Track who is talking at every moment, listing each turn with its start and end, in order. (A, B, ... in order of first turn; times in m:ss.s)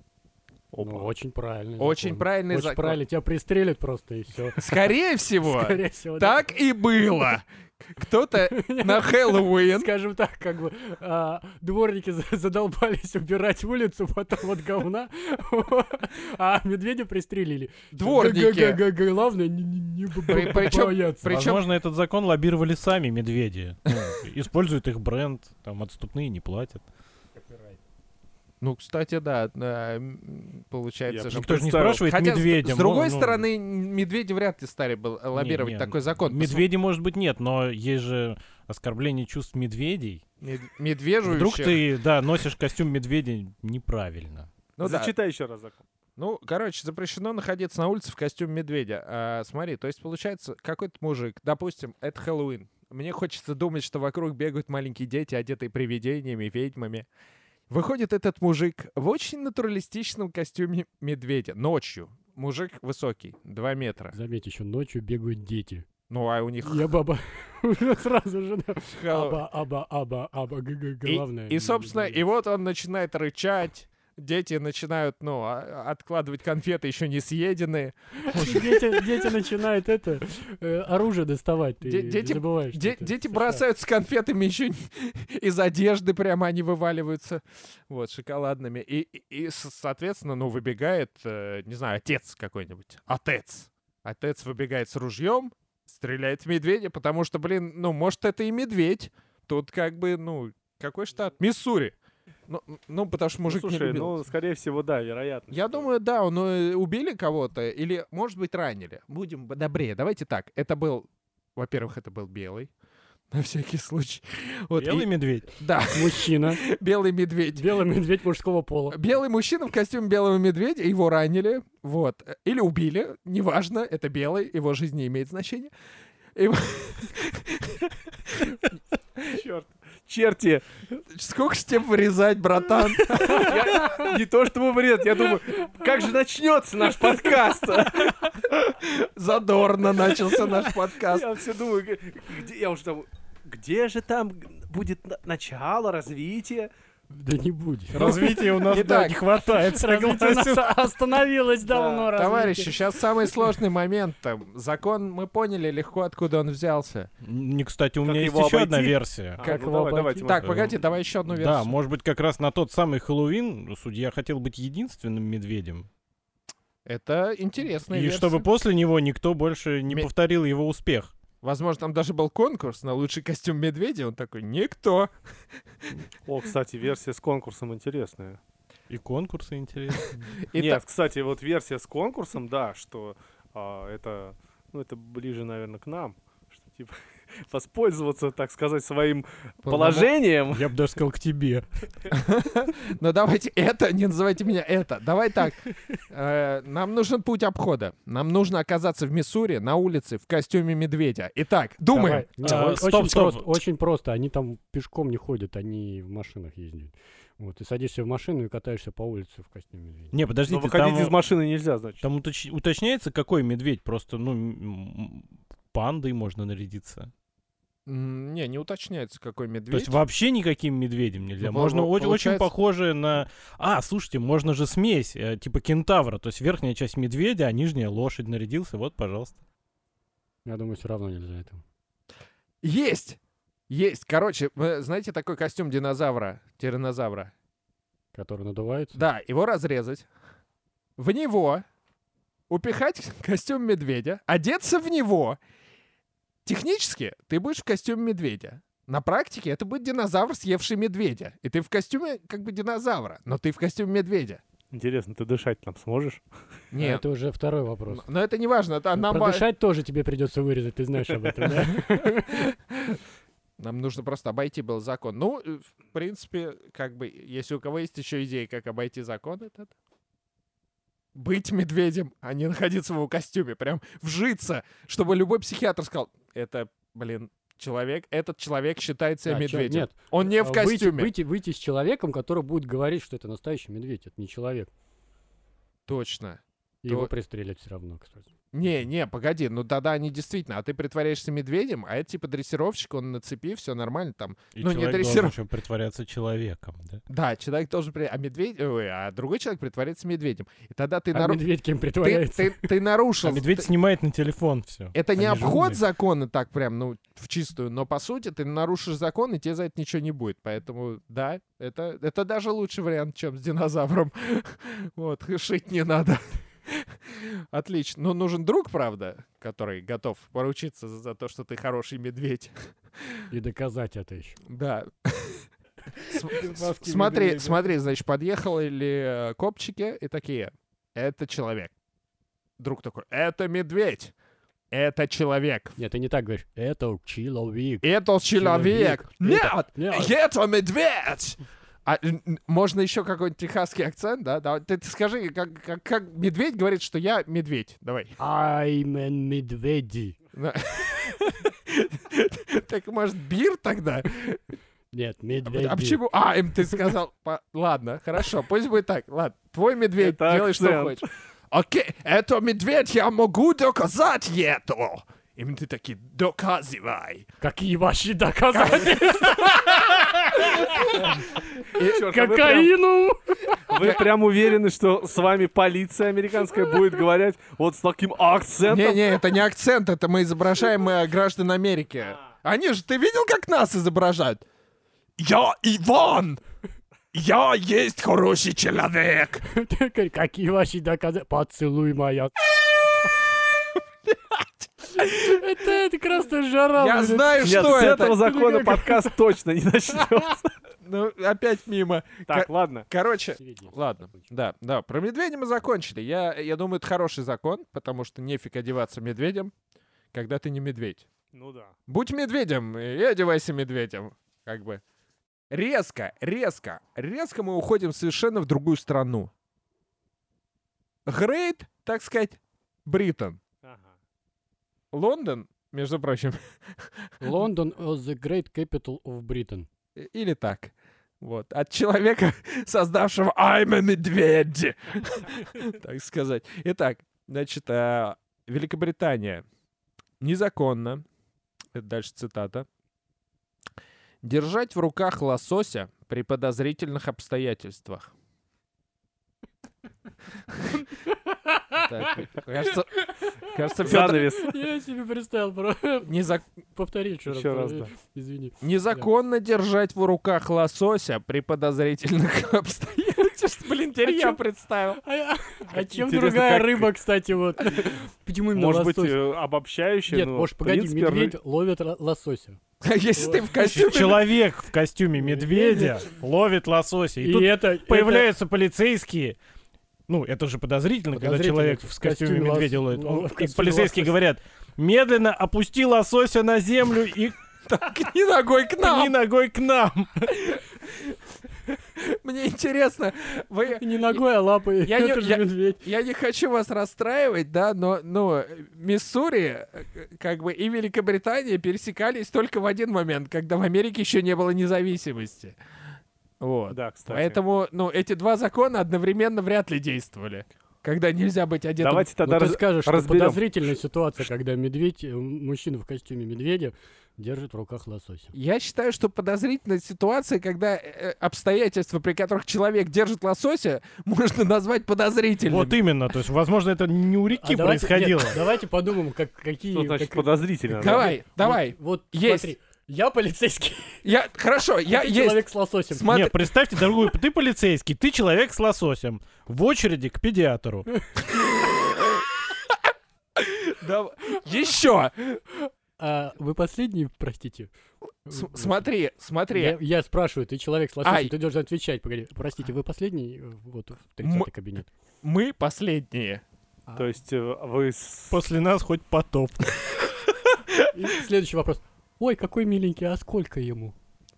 0:00.7-0:01.1 A
0:00.8-0:04.8 B
0:01.8-0:03.0 C
0:04.6-0:09.9 C
0:05.4-0:06.4 B
0:08.4-0:21.4 B
0:17.9-0:18.8 C
0:20.3-0:21.6 C
0:21.2-0:26.8 D
0:27.4-0:27.8 B
0:28.6-0:36.6 C
0:31.1-0:32.0 A
0:31.3-0:33.4 D
0:35.3-0:40.2 D
0:40.4-0:41.8 C
0:41.2-0:44.5 D
0:44.8-0:45.1 C
0:44.8-0:45.8 A
0:46.2-0:57.0 C
0:57.7-1:04.1 C
1:04.1-1:05.8 B
1:06.1-1:06.9 C
1:06.6-1:12.2 B
1:09.0-1:09.4 C
1:11.0-1:19.3 C
1:18.2-1:23.6 B
1:21.8-1:41.9 C
1:42.5-1:44.2 C
1:43.5-1:45.9 A
1:45.5-1:52.7 C
1:53.3-1:57.7 C
1:54.8-1:55.5 D
1:55.9-1:56.6 B
1:57.5-1:59.0 B
1:58.9-2:05.7 C
2:06.4-2:08.6 C
2:09.3-2:10.7 A
2:11.1-2:13.6 C
2:13.1-2:14.1 B
2:13.1-2:18.3 A
2:18.1-2:21.3 C
2:20.1-2:26.7 A
2:27.1-2:28.3 B
2:27.9-2:30.8 D
2:28.0-2:29.2 C
2:29.4-2:32.8 B
2:31.7-2:32.1 A
2:32.1-2:37.1 C
2:37.2-2:39.4 D
2:38.0-2:40.6 A
2:39.4-2:40.3 B
2:40.2-2:41.7 C
2:40.4-2:45.9 D
2:46.8-2:48.5 C
2:47.9-2:51.1 D
2:51.4-2:55.1 C
2:56.2-2:58.4 A
2:58.9-3:00.3 D
3:00.4-3:00.8 C
3:00.6-3:10.7 A
3:09.6-3:10.1 C
3:10.5-3:11.6 D
3:12.1-3:22.6 C
3:21.9-3:30.1 B
3:22.4-3:23.5 D
3:30.1-3:31.2 D
3:30.5-3:32.0 A
3:32.0-3:37.1 D
3:37.8-3:40.0 C
3:39.7-3:49.4 D
3:41.4-3:42.5 C
3:50.4-3:51.6 B
3:52.6-3:53.2 C
3:53.7-3:57.3 C
3:58.1-3:59.0 B
3:58.9-4:00.0 C
4:01.0-4:01.6 C
4:02.5-4:05.4 C
4:06.4-4:14.4 C
4:14.7-4:16.2 A
4:16.7-4:17.0 C
4:16.8-4:18.0 B
4:17.9-4:19.4 C
4:19.0-4:22.5 B
4:21.8-4:23.0 C
4:23.6-4:29.7 C
4:31.1-4:41.1 C
4:39.2-4:44.7 B
4:45.9-4:47.1 C
4:46.8-4:48.3 B
4:48.5-4:55.4 C
4:54.5-4:57.0 D
4:57.1-5:01.4 C
5:01.1-5:02.7 B
5:02.0-5:03.7 C
5:03.2-5:05.6 D
5:04.9-5:23.2 C
5:05.2-5:05.8 B
5:23.3-5:24.4 B
5:24.5-5:25.5 C
5:26.1-5:31.7 C
5:26.3-5:27.6 D
5:32.6-5:34.1 C
5:34.7-5:35.8 C
5:35.8-5:40.1 B
5:37.8-5:48.2 C
5:48.2-5:50.2 B
5:50.3-5:54.4 C
5:54.9-5:56.0 B
5:55.4-6:07.2 C
6:00.0-6:01.0 A
6:07.4-6:11.2 B
6:08.5-6:10.9 C
6:11.7-6:12.0 C
6:11.8-6:12.7 A
6:11.8-6:13.9 B
6:13.7-6:19.2 A
6:13.8-6:14.0 C
6:18.6-6:24.4 C
6:25.2-6:26.4 C
6:27.1-6:29.4 C
6:29.4-6:32.3 B
6:34.1-6:35.4 C
6:35.0-6:39.1 B
6:36.8-6:38.3 C
6:37.4-6:40.5 A
6:40.8-6:49.5 C
6:42.3-6:42.9 A
6:43.4-6:44.3 B
6:50.1-6:51.0 C
6:51.3-6:51.7 A
6:51.9-6:54.8 C
6:55.5-6:59.3 C
7:01.1-7:03.4 C
7:03.6-7:03.9 A
7:04.9-7:06.9 C
7:07.2-7:09.7 B
7:10.0-7:19.4 C
7:20.2-7:21.0 C
7:21.7-7:22.6 C
7:24.2-7:28.1 C
7:31.4-7:32.2 B
7:31.8-7:34.3 C
7:33.5-7:36.2 B
7:33.8-7:34.6 A
7:36.1-7:36.4 C
7:36.7-7:39.1 B
7:37.3-7:37.9 A
7:38.6-7:45.0 C
7:44.0-7:44.4 B
7:45.0-7:49.2 B
7:45.7-7:46.9 A
7:48.5-7:51.3 A
7:50.1-7:52.6 B
7:52.8-7:54.3 C
7:53.2-7:53.4 B
7:53.5-7:59.4 D
7:55.2-7:56.1 B
7:57.2-7:58.3 B
8:00.1-8:07.4 D
8:01.1-8:04.2 B
8:07.7-8:09.2 C
8:08.8-8:10.4 D
8:10.3-8:11.2 C
8:11.7-8:14.2 C
8:13.8-8:15.8 B
8:14.8-8:25.6 C
8:26.4-8:32.1 C
8:26.7-8:27.4 A
8:31.8-8:33.4 A
8:32.2-8:38.3 B
8:38.3-8:45.8 C
8:45.4-8:48.4 D
8:47.4-8:54.1 B
8:49.7-8:51.1 A
8:50.8-8:52.5 C
8:54.0-8:57.0 C
8:54.8-8:56.0 B
8:56.1-9:00.9 D
9:01.3-9:02.2 C
9:03.4-9:05.7 C
9:06.0-9:07.7 B
9:08.2-9:08.9 B
9:08.3-9:09.8 C
9:09.5-9:14.9 B
9:11.0-9:11.3 C
9:14.2-9:14.5 C
9:15.2-9:16.4 C
9:17.0-9:18.4 A
9:18.3-9:19.7 D
9:20.9-9:23.9 B